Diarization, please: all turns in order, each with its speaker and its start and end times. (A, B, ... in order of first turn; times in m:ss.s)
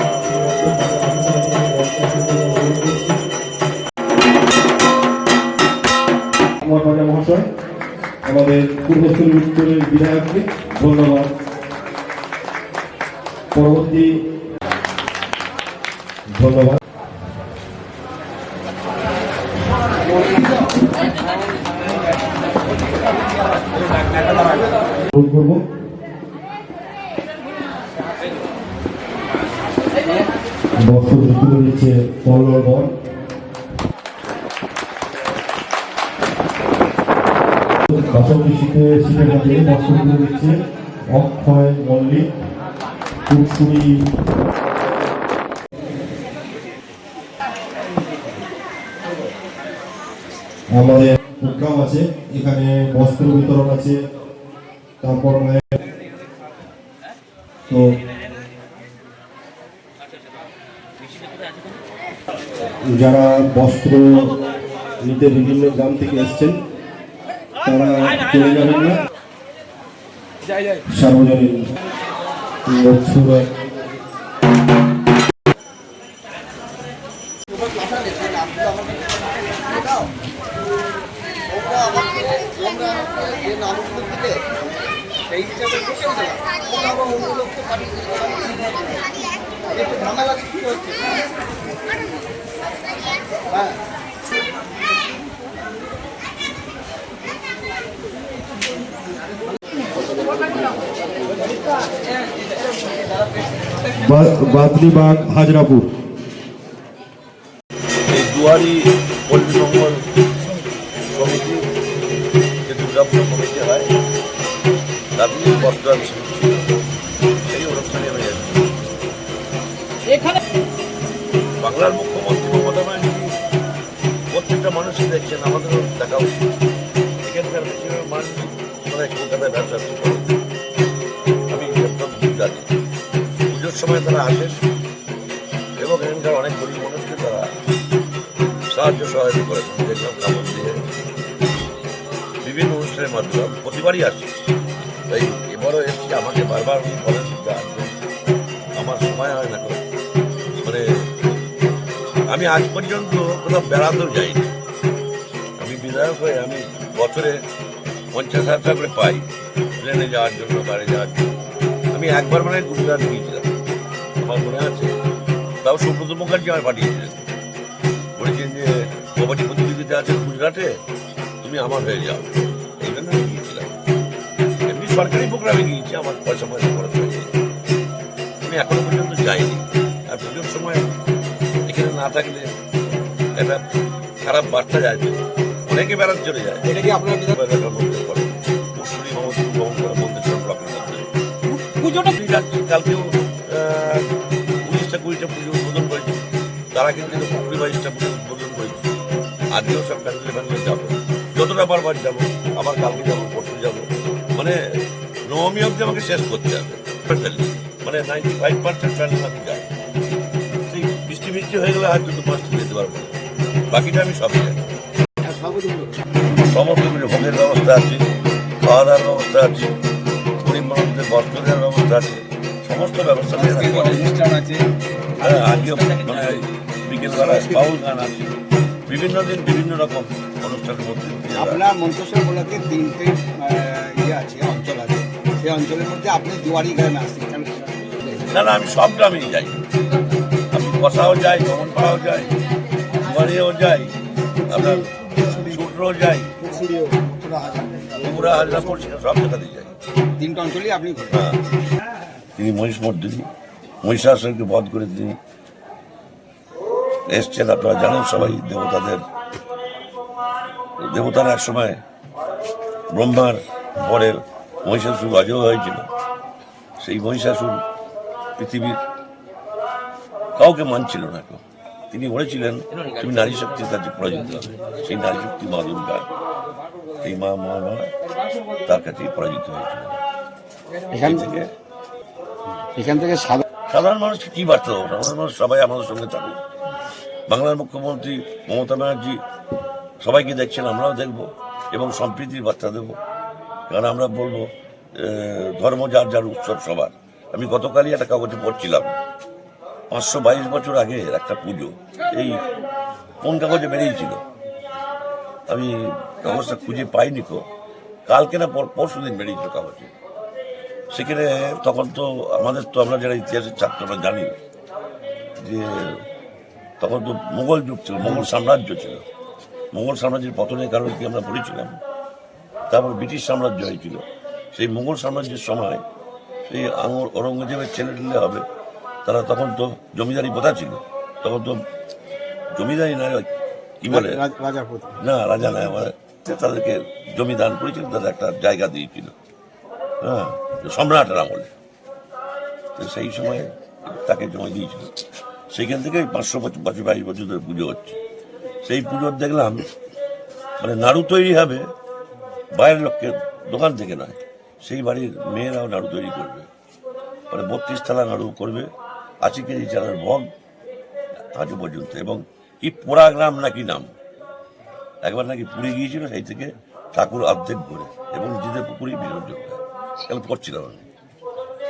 0:00.2-0:03.2 A
0:06.6-0:07.5 A
0:08.2-0:11.3 A
0:13.5-0:14.1 A
0:16.4-0:16.8 A
0:25.0-0:25.6 A
0:30.8-0:32.9 A
0:37.9-0:40.6 A
0:41.1-0:42.3 A
0:43.3-0:44.1 A
0:50.7-0:54.0 A
0:55.0-0:55.8 A
0:57.7-0:58.0 A
1:02.9-1:04.4 A
1:05.0-1:06.6 A
1:07.6-1:09.0 A
1:10.9-1:11.7 A
1:12.6-1:13.5 A
1:17.7-1:19.0 B
1:19.7-1:20.1 B
1:21.5-1:24.4 B
1:25.3-1:28.6 B
1:29.7-1:31.1 B
1:44.0-1:45.9 A
1:48.1-1:50.0 C
1:51.1-1:51.6 C
1:52.6-1:53.9 C
1:55.2-1:56.7 C
1:57.4-1:58.6 C
2:01.6-2:03.3 C
2:04.3-2:06.4 C
2:07.2-2:10.4 C
2:11.5-2:12.7 C
2:13.5-2:14.6 C
2:15.8-2:17.5 C
2:18.7-2:20.8 C
2:22.4-2:24.3 C
2:25.1-2:27.9 C
2:28.7-2:29.8 C
2:30.6-2:31.1 C
2:32.3-2:34.5 C
2:35.6-2:37.4 C
2:38.1-2:39.3 C
2:39.8-2:41.3 C
2:41.9-2:43.5 C
2:44.2-2:44.9 C
2:45.6-2:47.2 C
2:48.2-2:50.8 C
2:51.4-2:53.7 C
2:54.6-2:57.3 C
2:58.4-3:00.9 C
3:01.6-3:02.5 C
3:03.3-3:03.6 C
3:04.2-3:11.1 C
3:06.6-3:07.4 B
3:11.7-3:12.0 B
3:12.0-3:14.1 C
3:14.6-3:16.2 C
3:16.7-3:18.8 C
3:19.5-3:24.6 C
3:25.2-3:29.7 C
3:30.7-3:33.1 C
3:33.7-3:34.6 C
3:35.2-3:35.9 B
3:36.3-3:38.1 C
3:38.6-3:39.7 C
3:40.4-3:44.1 C
3:43.3-3:44.6 B
3:45.2-3:48.4 C
3:45.2-3:46.3 B
3:47.1-3:47.6 B
3:48.9-3:51.6 C
3:51.3-3:58.3 B
3:58.3-3:59.6 C
4:00.5-4:02.3 C
4:03.0-4:03.9 C
4:04.4-4:05.6 B
4:04.5-4:06.3 C
4:06.4-4:08.8 B
4:08.0-4:09.7 C
4:10.2-4:11.2 B
4:11.1-4:11.4 C
4:12.4-4:13.3 C
4:13.8-4:15.2 C
4:17.1-4:19.0 C
4:20.8-4:21.8 C
4:22.9-4:25.9 C
4:26.8-4:27.6 C
4:28.4-4:28.8 C
4:30.4-4:36.1 C
4:37.0-4:37.9 C
4:38.6-4:40.0 C
4:40.9-4:41.3 B
4:41.0-4:41.5 C
4:42.6-4:43.4 B
4:43.7-4:46.4 C
4:47.3-4:49.2 C
4:50.0-4:53.0 C
4:53.7-4:58.9 C
4:59.9-5:02.4 C
5:03.2-5:04.2 C
5:05.5-5:07.4 C
5:08.1-5:09.9 C
5:10.9-5:14.3 C
5:15.4-5:16.0 C
5:16.8-5:19.0 C
5:19.7-5:21.8 C
5:22.7-5:25.8 C
5:26.5-5:28.4 C
5:29.0-5:31.6 C
5:32.5-5:33.3 C
5:33.8-5:34.2 C
5:33.9-5:35.0 B
5:35.0-5:39.1 C
5:40.0-5:41.5 C
5:42.8-5:44.9 C
5:45.5-5:48.0 C
5:48.6-5:49.7 C
5:50.6-5:51.6 C
5:52.5-5:56.5 C
5:57.3-5:58.7 C
5:59.2-6:00.3 C
6:01.3-6:03.9 C
6:05.0-6:10.8 C